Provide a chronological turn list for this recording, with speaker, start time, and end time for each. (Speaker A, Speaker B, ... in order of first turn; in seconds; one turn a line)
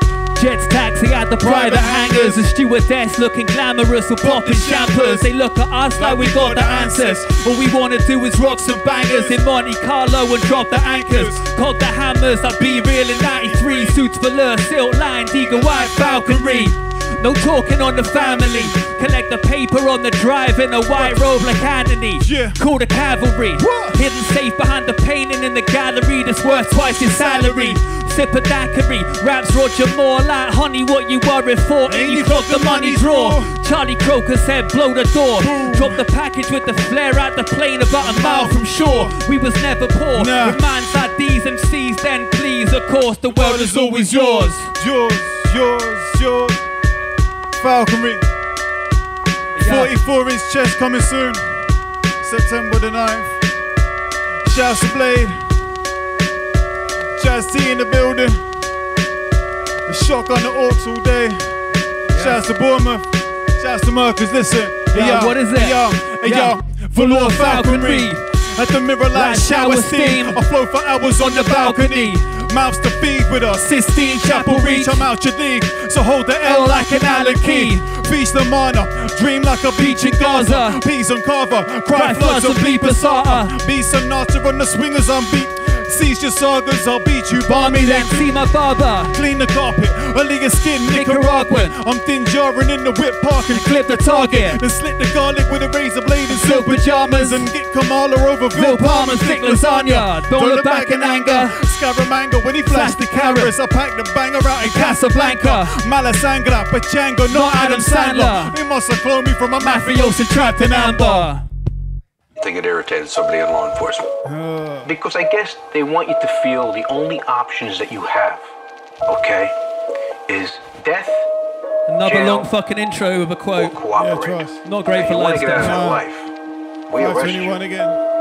Speaker A: 0.3-44.7
Speaker B: 1.4-2.5
Speaker B: 4.2-5.3
Speaker B: 6.0-7.5
Speaker B: 8.8-9.4
Speaker B: 10.7-11.5
Speaker B: 12.7-14.0
Speaker B: 15.4-16.7
Speaker B: 18.1-18.8
Speaker B: 20.9-21.3
Speaker B: 22.2-22.6
Speaker B: 23.6-24.0
Speaker B: 26.8-27.8
Speaker B: 31.9-33.5
Speaker B: 35.4-36.0
Speaker B: 38.0-39.2
Speaker B: 40.1-40.6
Speaker B: 43.3-46.6
Speaker B: 47.6-48.2
Speaker A: 49.6-49.9
Speaker B: 49.6-51.6
Speaker B: 52.2-53.4
Speaker B: 54.4-55.4
Speaker B: 57.2-58.4
Speaker B: 59.9-61.5
Speaker A: 62.1-62.4
Speaker B: 62.1-88.3
Speaker A: 64.9-68.2
Speaker A: 69.1-70.4
Speaker A: 71.2-72.3
Speaker A: 73.6-75.1
Speaker A: 76.6-77.9
Speaker A: 79.8-80.8
Speaker A: 81.9-83.6
Speaker A: 87.4-89.1
Speaker B: 89.1-111.3
Speaker A: 90.9-91.8
Speaker A: 93.5-94.6
Speaker A: 96.3-97.5
Speaker A: 98.5-101.6
Speaker A: 102.7-103.5
Speaker A: 104.6-105.8
Speaker A: 107.3-108.6
Speaker A: 109.6-111.4
Speaker C: 112.4-114.1
Speaker B: 114.2-114.9
Speaker C: 114.9-118.5
Speaker C: 119.1-119.5
Speaker C: 120.3-121.3
Speaker A: 121.9-123.8
Speaker C: 122.0-122.5
Speaker C: 123.6-126.3
Speaker B: 123.9-124.6
Speaker A: 124.6-125.8
Speaker B: 125.6-126.1
Speaker C: 126.9-127.6
Speaker B: 126.9-128.0